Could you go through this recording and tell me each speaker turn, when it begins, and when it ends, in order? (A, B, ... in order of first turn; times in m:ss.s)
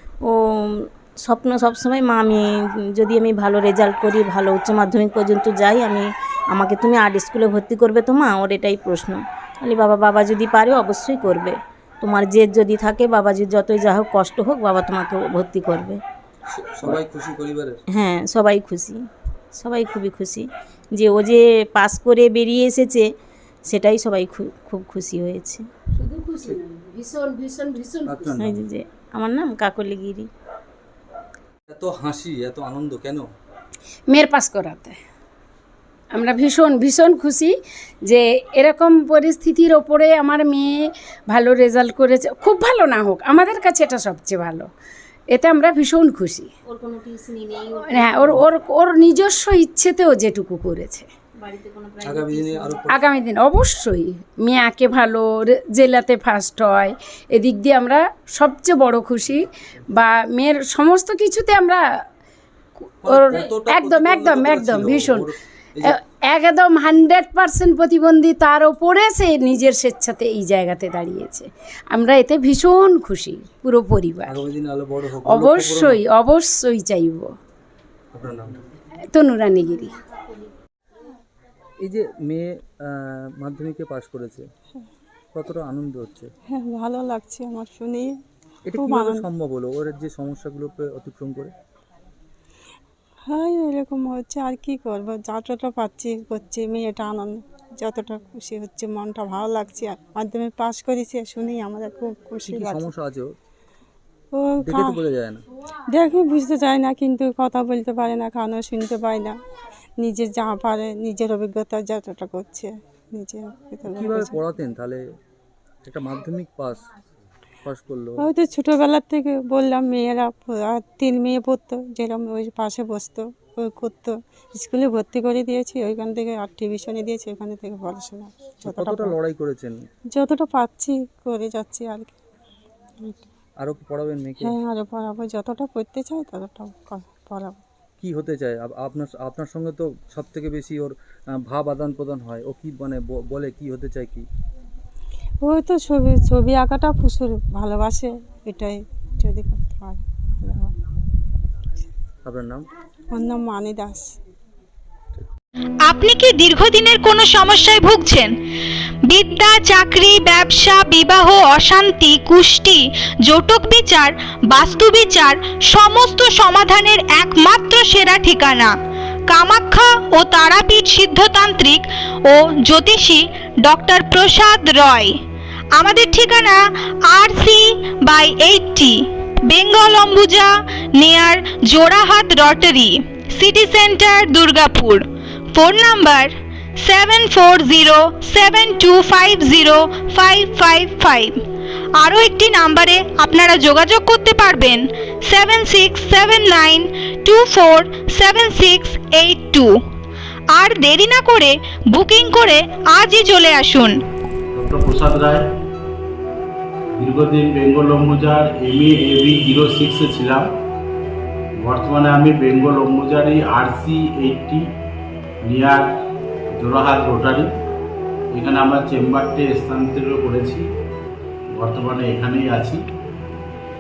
0:00.3-0:16.0 A
0:16.5-0:17.8 B
0:17.9-0:19.0 A
0:19.6-0:23.1 A
0:23.7-0:25.6 A
0:26.0-0:28.4 C
0:28.1-0:28.6 B
0:28.4-0:30.3 A
0:31.7-0:33.3 B
0:34.1-0:35.0 C
0:36.1-0:37.5 C
0:38.1-0:44.7 C
0:45.3-0:46.5 C
0:46.7-0:48.3 D
0:47.7-0:51.1 C
0:51.4-0:52.8 D
0:52.0-0:53.2 B
0:52.8-1:01.8 C
1:03.0-1:06.0 B
1:03.1-1:05.3 C
1:05.8-1:14.4 C
1:14.3-1:16.0 B
1:15.2-1:17.3 C
1:18.1-1:18.6 B
1:19.1-1:19.9 C
1:21.8-1:24.4 B
1:25.3-1:26.3 B
1:26.5-1:28.2 E
1:28.7-1:31.5 B
1:28.7-1:29.3 E
1:33.3-1:42.9 E
1:42.4-1:43.3 B
1:44.4-1:45.0 E
1:44.6-1:45.4 B
1:45.9-1:49.4 E
1:50.0-1:54.4 E
1:53.8-1:55.0 B
1:55.8-1:56.8 B
1:57.7-1:58.2 B
1:58.2-2:09.2 E
2:08.6-2:09.7 B
2:10.2-2:12.1 E
2:13.6-2:14.6 B
2:14.4-2:17.6 E
2:18.0-2:20.9 B
2:21.5-2:24.2 B
2:25.4-2:30.7 E
2:32.2-2:32.7 B
2:33.1-2:34.1 E
2:35.9-2:38.3 F
2:39.1-2:48.7 F
2:49.3-2:55.2 F
2:55.8-3:11.4 F
3:12.0-3:19.7 F
3:20.5-3:24.0 F
3:24.6-3:25.5 G
3:27.0-3:30.5 G
3:31.6-3:34.7 G
3:35.4-3:35.9 G
3:36.5-3:37.5 G
3:38.3-3:40.7 G
3:41.5-3:42.8 G